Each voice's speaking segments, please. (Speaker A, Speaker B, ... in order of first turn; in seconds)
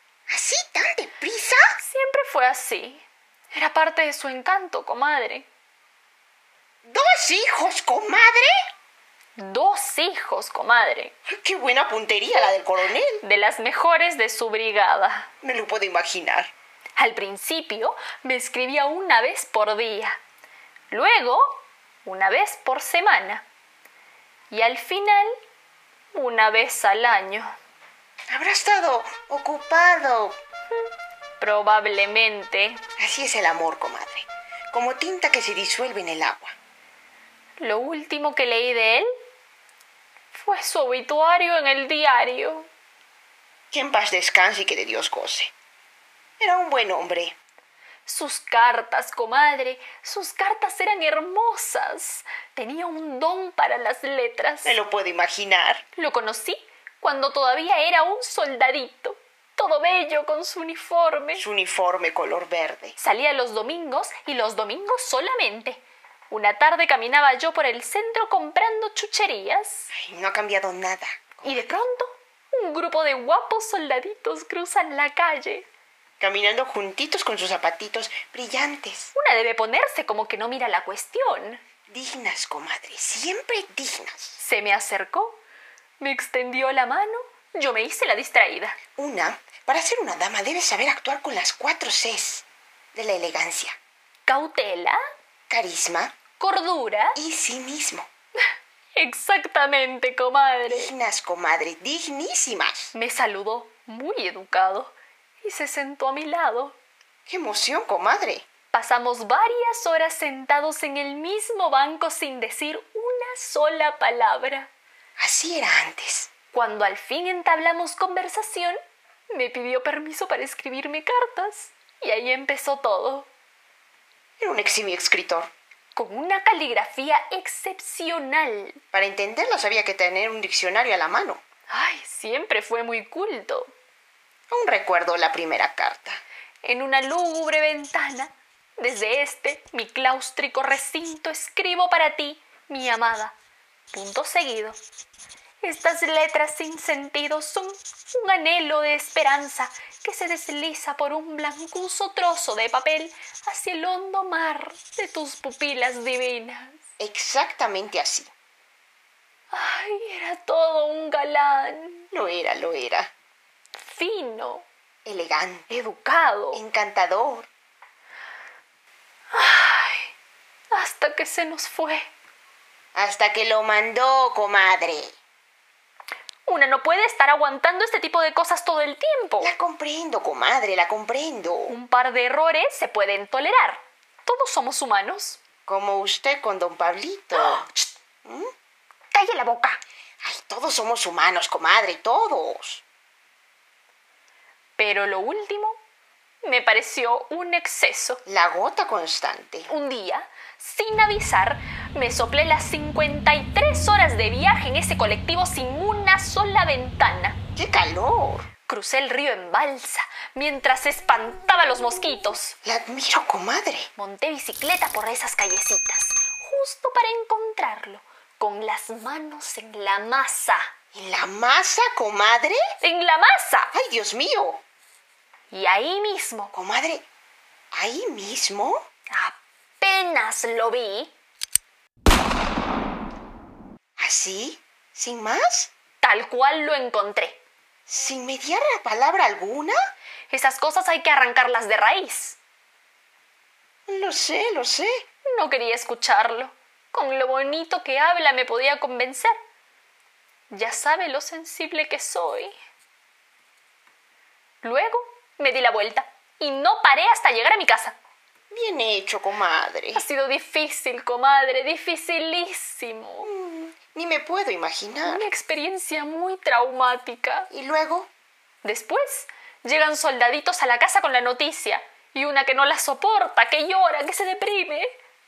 Speaker A: 0.3-1.6, 6.8-8.5, 11.3-13.2, 15.4-16.5, 28.3-30.4, 33.0-36.5, 43.7-45.5, 46.4-47.3, 54.6-55.8, 61.3-63.0, 69.9-71.8, 76.2-79.1, 81.9-84.4, 89.0-93.8, 95.5-96.1, 97.1-98.1, 100.7-102.9, 107.3-108.4, 115.2-116.3, 124.4-125.5, 128.9-131.4, 134.5-136.2, 157.0-158.3, 162.1-163.1, 165.0-165.7, 166.5-167.5, 172.9-175.1, 179.4-181.7, 185.7-187.7, 188.2-188.5, 190.2-192.8, 198.2-199.7, 207.6-208.5, 212.6-213.9, 220.9-222.6, 223.7-224.6, 226.5-227.0, 227.7-228.8, 234.0-235.7, 237.9-239.8, 243.9-244.9, 258.5-260.0, 263.2-265.3, 267.5-268.1
Speaker B: 1.8-5.5, 9.4-11.1, 13.2-15.3, 17.0-20.2, 20.9-23.4, 24.5-25.3, 26.1-27.5, 31.4-32.8, 37.6-39.1, 40.3-42.7, 48.0-54.8, 56.0-61.4, 63.0-69.9, 71.4-75.7, 79.1-81.6, 84.4-85.4, 86.0-88.8, 94.2-95.0, 96.4-97.2, 98.9-100.9, 102.9-106.8, 108.7-114.7, 116.5-118.8, 119.3-123.3, 125.9-128.8, 131.7-133.7, 136.6-143.3, 143.9-144.8, 145.6-156.8, 159.5-162.1, 163.8-164.7, 165.7-166.6, 169.3-170.1, 170.7-172.1, 176.4-179.5, 181.7-185.4, 187.3-187.9, 189.1-189.8, 194.8-195.8, 196.4-198.2, 199.7-207.4, 208.7-212.6, 213.9-220.7, 222.8-223.7, 225.5-226.5, 229.1-231.1, 236.0-237.4, 240.3-242.4, 245.3-249.3, 250.5-252.5, 254.6-258.0, 259.9-263.3, 265.0-267.5, 268.6-274.9